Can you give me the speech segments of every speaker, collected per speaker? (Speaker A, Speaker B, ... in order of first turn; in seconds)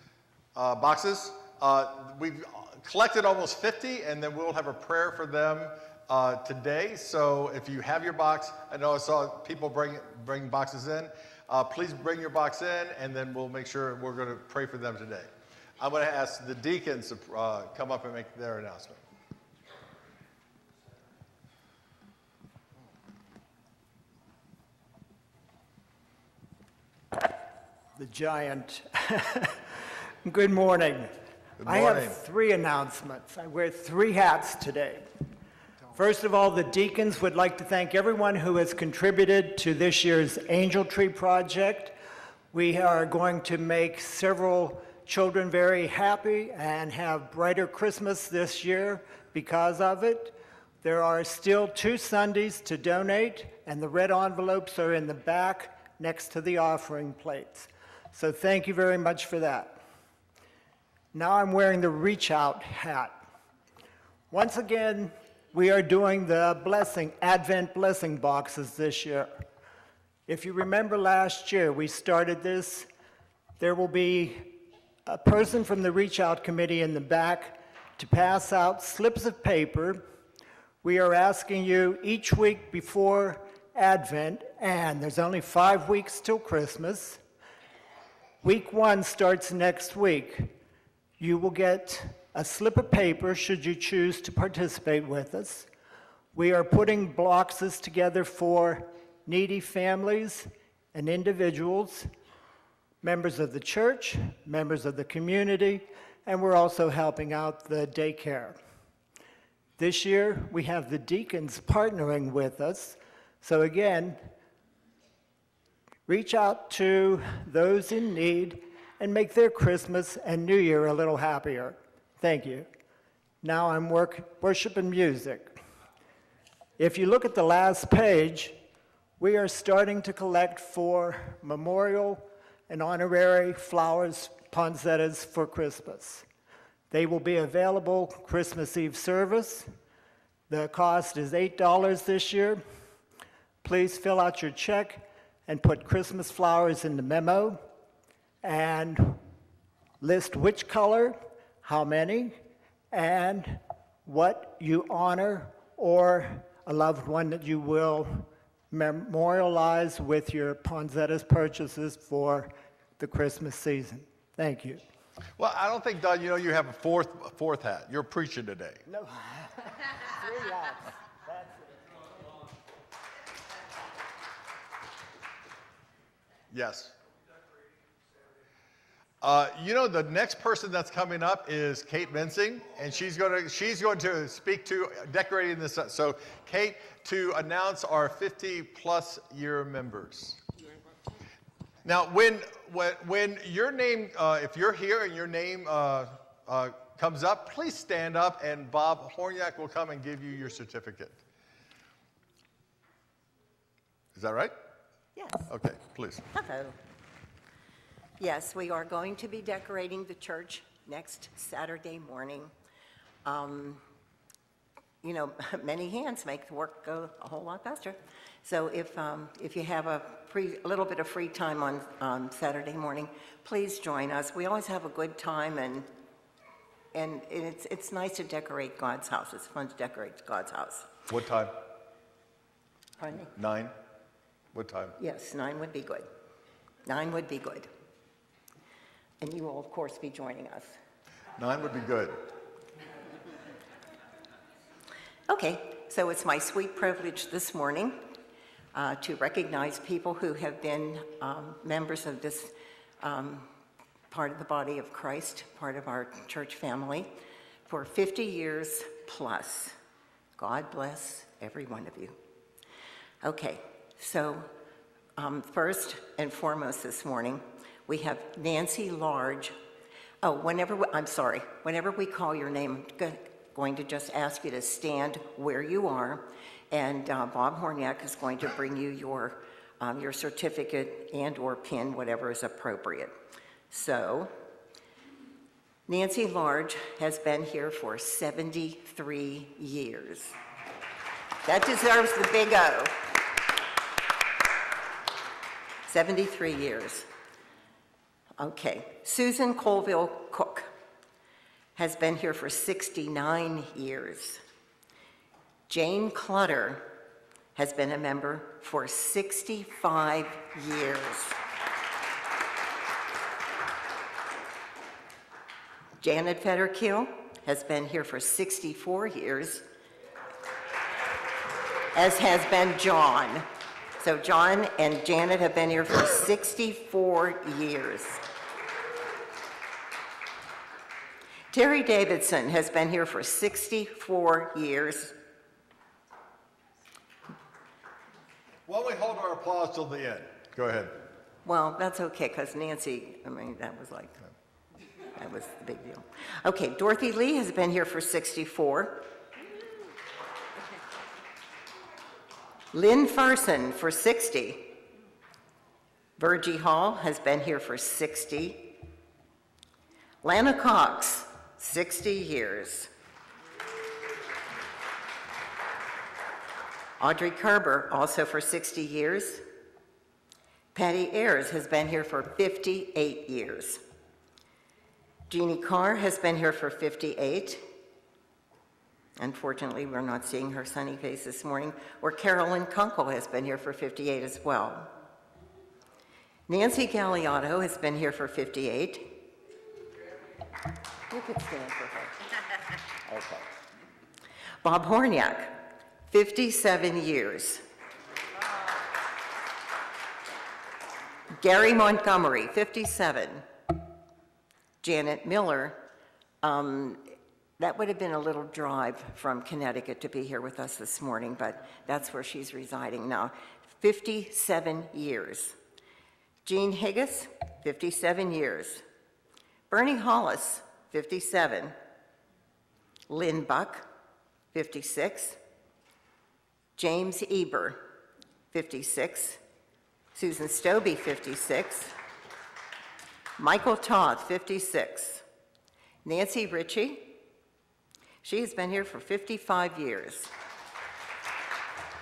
Speaker A: 0.5-15.3, 15.8-19.0, 31.6-32.2, 165.4-168.8, 176.5-176.9, 179.2-190.4, 191.8-201.2, 204.1-204.5, 205.5-206.2, 231.1-231.6, 233.3-233.8, 234.5-235.0, 241.4-242.2, 338.7-341.0
Speaker B: 27.9-29.7, 30.2-35.1, 35.9-42.0, 42.5-59.8, 61.1-63.2, 64.3-69.5, 70.3-72.9, 73.6-80.0, 80.8-87.2, 88.4-90.6, 91.2-95.7, 96.3-102.1, 103.0-108.6, 109.8-114.3, 116.0-122.7, 123.4-125.6, 126.8-128.6, 129.2-136.2, 136.9-139.7, 140.5-142.6, 143.6-147.7, 148.4-149.2, 150.0-152.4, 152.9-164.8, 168.9-171.5
Speaker C: 205.2-205.5, 206.3-206.8, 208.2-212.5, 213.2-213.8, 215.0-225.9, 226.9-230.9, 233.0-233.3, 235.0-236.1, 236.8-237.7, 239.2-240.8, 245.3-248.2, 248.7-253.5, 254.1-257.1, 257.7-259.8, 260.4-262.2, 263.2-264.5, 265.1-269.6, 270.2-283.1, 283.7-284.3, 285.9-290.4, 291.4-293.1, 295.9-297.1, 298.4-300.7, 301.8-304.4, 305.7-307.0, 307.6-311.4, 316.0-319.7, 321.9-323.5, 324.0-328.2, 331.5-335.2, 341.4-344.2, 345.1-349.1, 352.7-354.8, 356.2-358.8, 360.2-362.9, 367.0-369.4, 370.7-373.8, 375.3-377.6, 379.2-384.9, 386.5-389.2, 391.1-392.1, 393.1-393.4, 394.6-397.6, 401.4-403.4, 404.8-405.9, 406.4-415.6, 416.4-418.8, 419.7-421.7, 423.1-423.9, 424.5-425.4, 426.8-427.9, 428.5-429.4, 430.1-431.9, 433.4-435.2, 436.0-437.2, 438.2-440.3